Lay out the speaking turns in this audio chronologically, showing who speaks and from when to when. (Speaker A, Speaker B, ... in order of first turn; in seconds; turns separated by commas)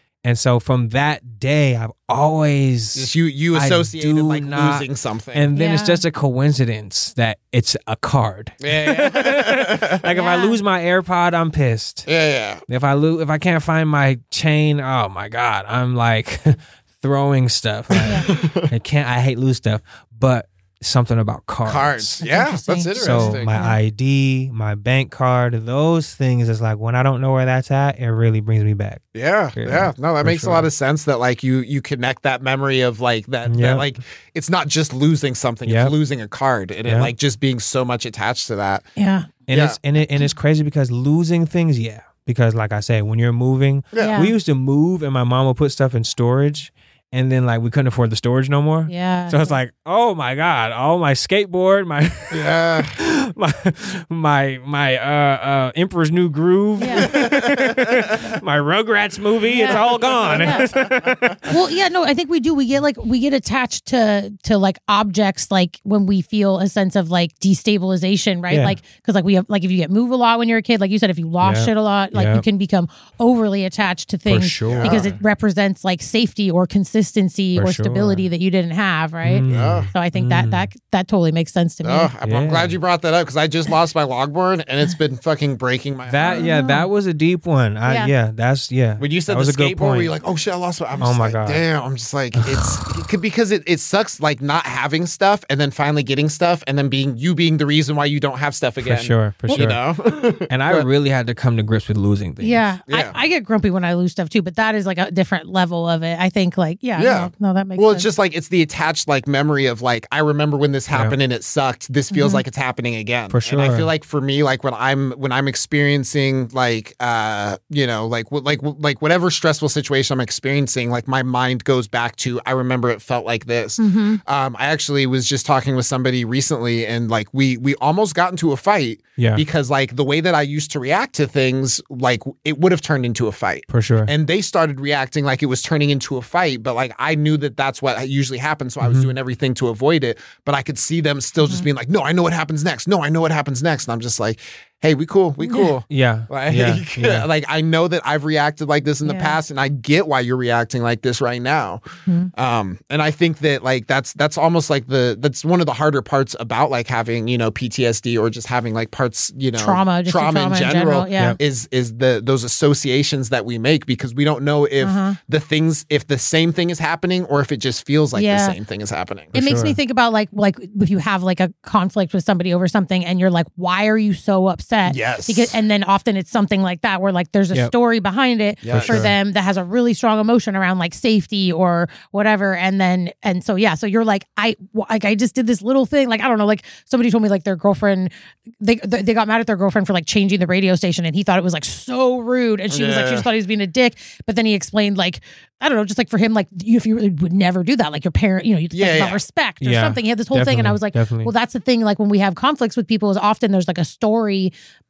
Speaker A: 0.2-12.1, Speaker B: 2.9-5.5, Speaker C: 5.5-6.0, Speaker B: 8.6-10.0, Speaker C: 10.1-10.6, Speaker B: 12.1-12.6, Speaker A: 12.7-22.2, Speaker B: 17.9-18.7, Speaker C: 18.0-18.3, Speaker B: 21.6-23.6, Speaker C: 22.2-23.8, Speaker A: 22.9-29.0, Speaker B: 29.1-38.9, Speaker A: 29.6-30.7, Speaker A: 33.5-33.9, Speaker A: 35.6-35.9, Speaker A: 36.8-37.1, Speaker C: 39.0-39.3, Speaker A: 39.5-61.5, Speaker B: 39.5-39.8, Speaker B: 43.9-44.3, Speaker C: 44.0-44.3, Speaker C: 48.9-49.5, Speaker B: 52.3-53.0, Speaker C: 56.8-57.1, Speaker B: 56.9-58.1, Speaker C: 59.5-60.7, Speaker B: 59.7-61.4, Speaker C: 61.4-82.1, Speaker A: 68.5-68.8, Speaker A: 71.4-72.4, Speaker A: 74.3-75.1, Speaker B: 74.7-75.2, Speaker A: 77.5-78.3, Speaker A: 79.2-80.7, Speaker B: 79.5-79.9, Speaker B: 81.8-86.5, Speaker A: 82.2-82.8, Speaker A: 86.0-90.1, Speaker C: 86.2-86.9, Speaker C: 87.8-88.1, Speaker B: 89.0-100.9, Speaker A: 91.0-91.6, Speaker A: 92.3-92.7, Speaker A: 98.8-99.8, Speaker A: 100.5-102.7, Speaker C: 102.4-108.1, Speaker B: 102.9-103.2, Speaker B: 107.0-151.8, Speaker C: 112.1-112.4, Speaker A: 113.3-113.9, Speaker C: 123.8-124.2, Speaker A: 129.2-129.4, Speaker A: 133.7-134.1, Speaker A: 138.8-139.1, Speaker C: 145.4-145.7, Speaker A: 145.9-147.3, Speaker C: 149.0-149.4, Speaker C: 152.1-152.3, Speaker B: 152.3-169.3, Speaker C: 159.6-161.4, Speaker C: 164.8-165.2, Speaker C: 168.1-168.6, Speaker A: 169.3-169.8, Speaker C: 169.3-204.5, Speaker B: 174.8-175.6, Speaker B: 178.6-179.1, Speaker A: 178.7-179.1, Speaker B: 192.7-193.3, Speaker B: 198.7-199.2, Speaker A: 199.6-201.3